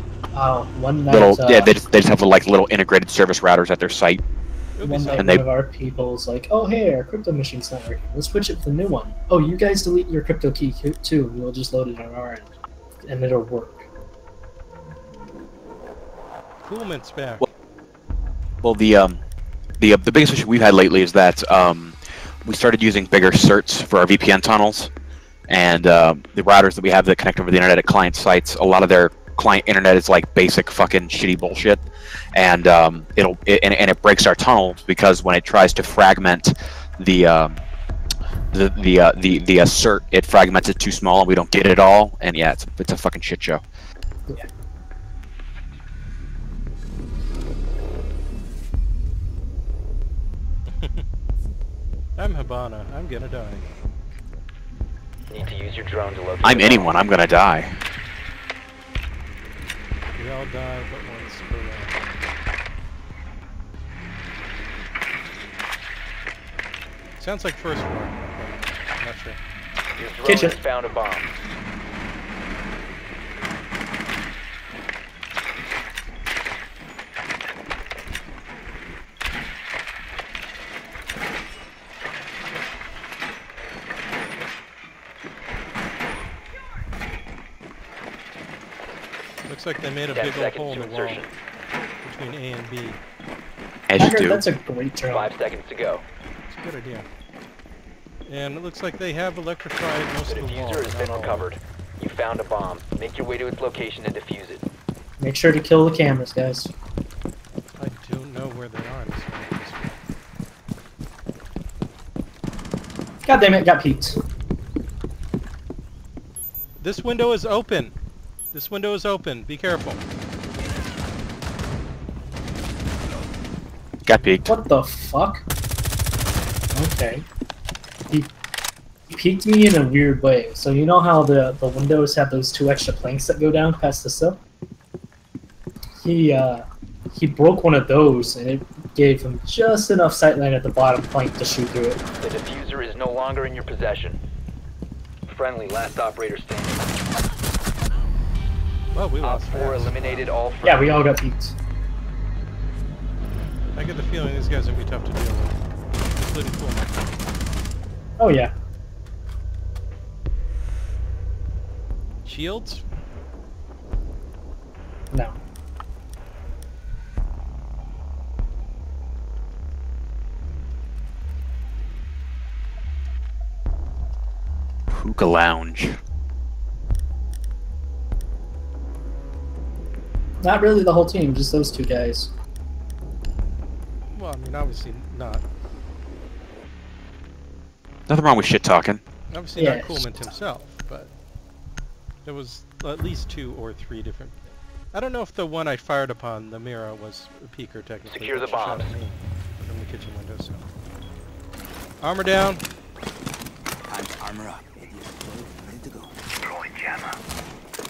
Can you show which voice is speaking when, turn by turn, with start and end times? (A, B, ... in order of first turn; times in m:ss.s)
0:00.3-0:01.8 A
0:01.1-0:04.2 B
0:04.8-0:05.2 C
0:04.8-0:12.5 A
0:05.2-0:05.4 B
0:13.0-0:13.9 A
0:16.6-0:17.4 C
0:18.6-0:19.2 B
0:19.8-0:24.9 B
0:25.5-0:31.8 B
0:32.3-0:37.6 B
0:38.5-0:43.6 B
0:50.7-0:51.0 C
0:52.2-0:53.6 C
0:55.3-0:57.0 D
0:56.4-0:57.8 B
1:00.2-1:02.1 C
1:07.2-1:09.4 C
1:10.0-1:11.3 D
1:10.2-1:10.5 A
1:29.4-1:31.2 C
1:30.1-1:31.3 D
1:32.0-1:33.0 C
1:33.9-1:34.4 B
1:34.0-1:35.3 A
1:35.1-1:36.0 D
1:36.4-1:37.0 C
1:38.3-1:41.5 C
1:40.3-1:44.6 D
1:45.2-1:46.7 A
1:47.8-1:50.0 C
1:53.2-1:54.2 A
1:56.8-1:57.9 C
1:58.5-2:00.0 C
2:04.1-2:04.5 B
2:04.5-2:05.4 A
2:06.7-2:07.2 A
2:09.1-2:14.4 A
2:16.0-2:22.0 A
2:22.2-2:24.2 D
2:25.3-2:26.9 D
2:28.9-2:30.3 C
2:29.2-2:30.9 D
2:30.6-2:31.5 A
2:33.7-2:37.1 C
2:38.2-2:38.5 A
2:42.2-2:42.8 C
2:45.1-2:45.4 A
2:54.9-2:56.0 B
3:00.4-3:02.3 A
3:04.1-3:05.4 C
3:08.1-3:09.0 B
3:09.3-3:11.1 C
3:09.6-3:10.0 A
3:12.2-3:20.7 C
3:18.1-3:18.9 D
3:22.0-3:22.6 C
3:23.9-3:26.2 E